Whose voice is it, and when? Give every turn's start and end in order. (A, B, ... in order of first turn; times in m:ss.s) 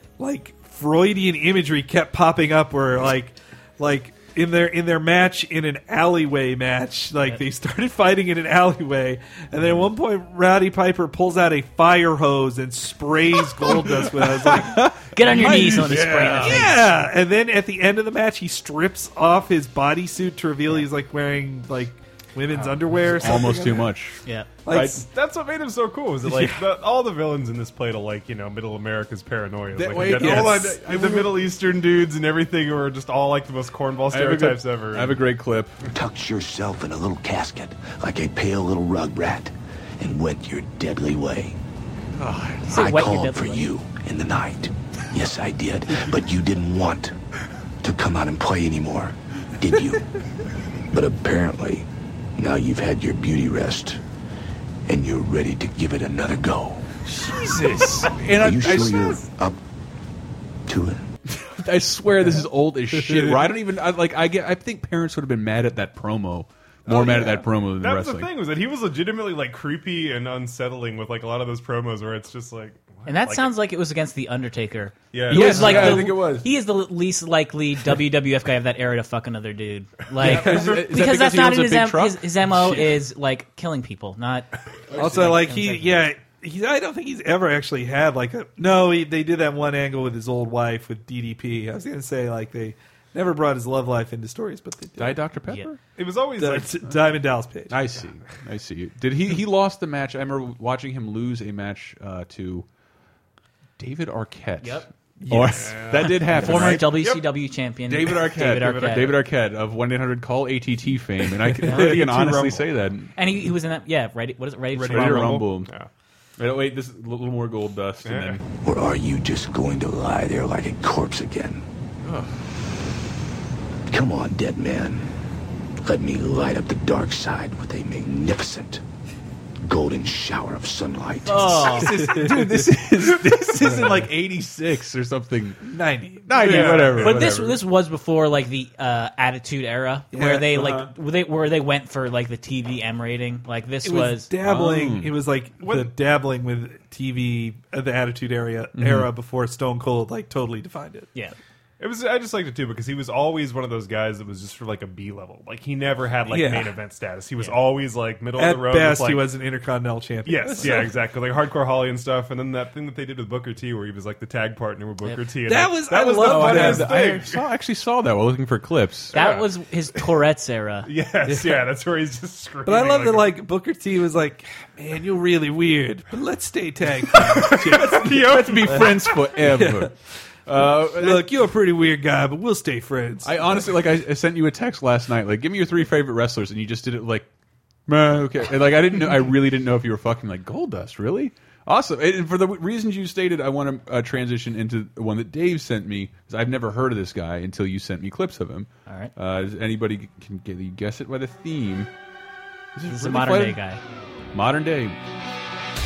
0:00.2-0:24.0 A
0:13.6-0:16.8 B
0:15.1-0:16.9 C
0:22.6-0:24.2 B
0:24.7-0:25.1 A
0:24.7-0:35.2 D
0:26.2-0:26.7 A
0:29.7-0:31.5 B
0:29.9-0:30.8 A
0:34.1-0:35.8 B
0:35.9-0:41.6 E
0:42.2-0:42.8 B
0:42.7-0:43.7 C
0:42.7-0:47.1 E
0:47.8-0:50.1 E
0:50.9-0:54.0 E
0:54.9-0:57.0 E
0:57.1-0:59.2 B
0:57.3-0:58.1 A
0:58.3-0:59.6 E
1:00.7-1:01.1 E
1:01.3-1:08.3 B
1:02.9-1:03.5 A
1:06.9-1:13.5 D
1:13.1-1:26.0 C
1:15.1-1:16.1 D
1:15.3-1:16.5 B
1:20.2-1:23.0 B
1:24.9-1:35.2 A
1:35.0-1:35.8 B
1:36.0-1:36.8 D
1:36.4-1:37.8 A
1:37.7-1:42.7 B
1:43.8-1:47.2 B
1:44.6-1:44.9 C
1:45.2-1:46.8 A
1:45.6-1:46.1 D
1:46.3-1:49.2 C
1:47.9-1:53.1 B
1:48.6-1:49.0 D
1:51.5-1:52.6 A
1:51.6-1:51.9 C
1:53.2-1:55.4 C
1:54.8-1:55.7 B
1:54.8-1:55.9 D
1:56.4-1:58.4 B
1:58.0-1:58.4 D
1:58.6-2:01.6 E
2:02.0-2:02.4 B
2:03.9-2:05.1 E
2:05.8-2:08.8 E
2:09.6-2:11.7 E
2:11.3-2:12.0 C
2:11.6-2:12.8 A
2:11.8-2:15.7 B
2:13.5-2:14.1 A
2:15.6-2:16.7 A
2:16.2-2:17.6 B
2:16.4-2:17.2 D
2:16.4-2:24.3 C
2:20.1-2:20.7 A
2:20.5-2:20.8 B
2:23.8-2:31.1 A
2:24.4-2:25.1 B
2:28.8-2:29.1 B
2:31.8-2:39.3 D
2:36.3-2:36.8 A
2:38.4-2:40.9 A
2:40.2-2:47.4 D
2:45.5-2:47.1 A
2:45.9-2:49.1 B
2:49.1-2:49.5 D
2:49.1-2:50.9 C
2:50.9-2:53.3 D
2:51.2-2:51.7 A
2:52.6-2:59.9 A
2:57.2-2:58.9 D
2:57.6-2:59.9 B
3:00.5-3:01.3 B
3:00.9-3:03.8 A
3:03.2-3:07.3 B
3:07.9-3:21.9 B
3:22.8-3:23.6 B
3:22.9-3:23.8 C
3:24.3-3:25.0 B